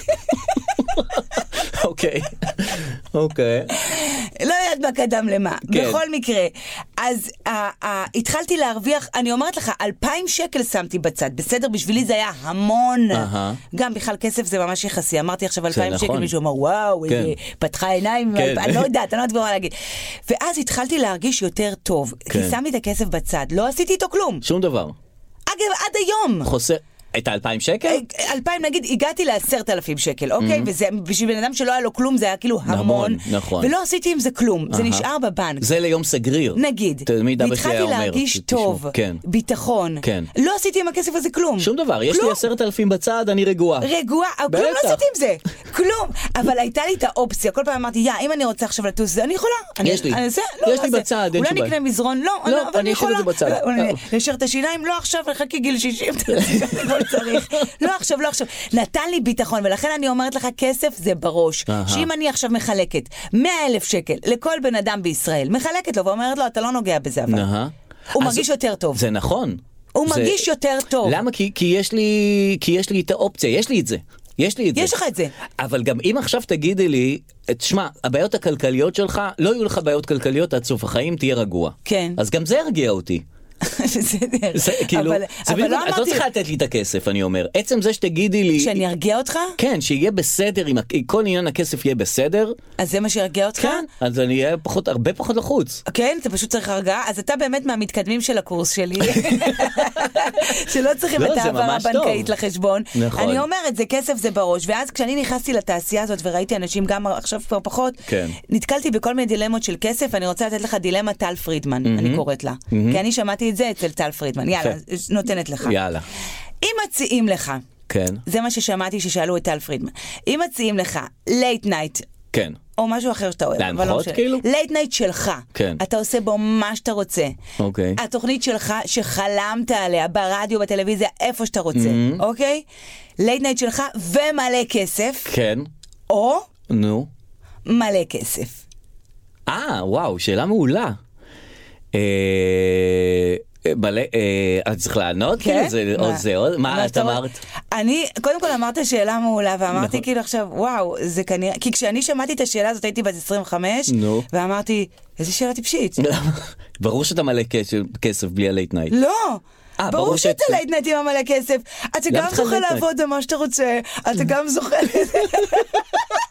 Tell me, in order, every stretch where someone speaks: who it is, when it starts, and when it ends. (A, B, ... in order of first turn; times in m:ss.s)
0:00.3-0:00.7 A
0:00.8-0:03.7 B
0:03.8-0:19.7 A
0:05.7-0:06.0 B
0:13.1-0:13.6 B
0:15.7-0:16.3 B
0:17.1-0:17.3 B
0:18.3-0:18.9 B
0:20.3-0:24.4 A
0:22.3-0:22.6 B
0:24.4-0:24.9 B
0:25.5-0:26.5 A
0:26.4-0:28.0 B
0:27.8-0:35.6 A
0:30.4-0:30.7 B
0:32.6-0:33.7 B
0:34.7-0:35.1 B
0:35.6-0:39.2 B
0:36.5-0:42.4 A
0:40.0-0:40.3 B
0:41.6-0:43.9 B
0:43.8-1:07.5 A
0:44.5-0:45.0 B
0:49.8-0:51.7 B
0:52.4-0:54.0 B
0:56.3-0:57.6 B
1:01.7-1:02.1 B
1:07.3-1:10.5 B
1:08.1-1:09.0 A
1:09.9-1:11.2 A
1:11.0-1:14.9 B
1:14.7-1:15.3 A
1:15.6-1:23.2 B
1:21.8-1:22.2 A
1:23.6-1:26.2 A
1:24.5-1:28.8 B
1:28.6-1:29.6 A
1:29.6-1:32.6 B
1:32.8-1:33.8 A
1:33.6-1:35.8 B
1:35.9-1:55.8 A
1:39.0-1:40.5 B
1:41.1-1:42.3 B
1:42.9-1:43.4 B
1:48.0-1:48.4 B
1:51.8-1:53.0 B
1:55.6-1:56.0 B
1:56.6-1:57.6 A
1:57.9-1:58.2 B
1:58.2-2:02.1 A
2:02.3-2:02.6 B
2:02.8-2:07.4 A
2:03.6-2:04.4 B
2:05.5-2:05.8 B
2:07.6-2:08.0 B
2:08.0-2:12.6 A
2:11.7-2:12.2 B
2:13.2-2:15.3 A
2:15.2-2:15.7 B
2:16.1-2:16.4 A
2:16.7-2:17.1 B
2:17.6-2:18.6 A
2:19.5-2:21.0 B
2:21.9-2:27.4 B
2:25.4-2:36.0 A
2:29.7-2:30.0 B
2:33.9-2:34.3 B
2:36.0-2:38.9 B
2:38.9-2:45.8 A
2:39.8-2:40.6 B
2:42.1-2:42.8 B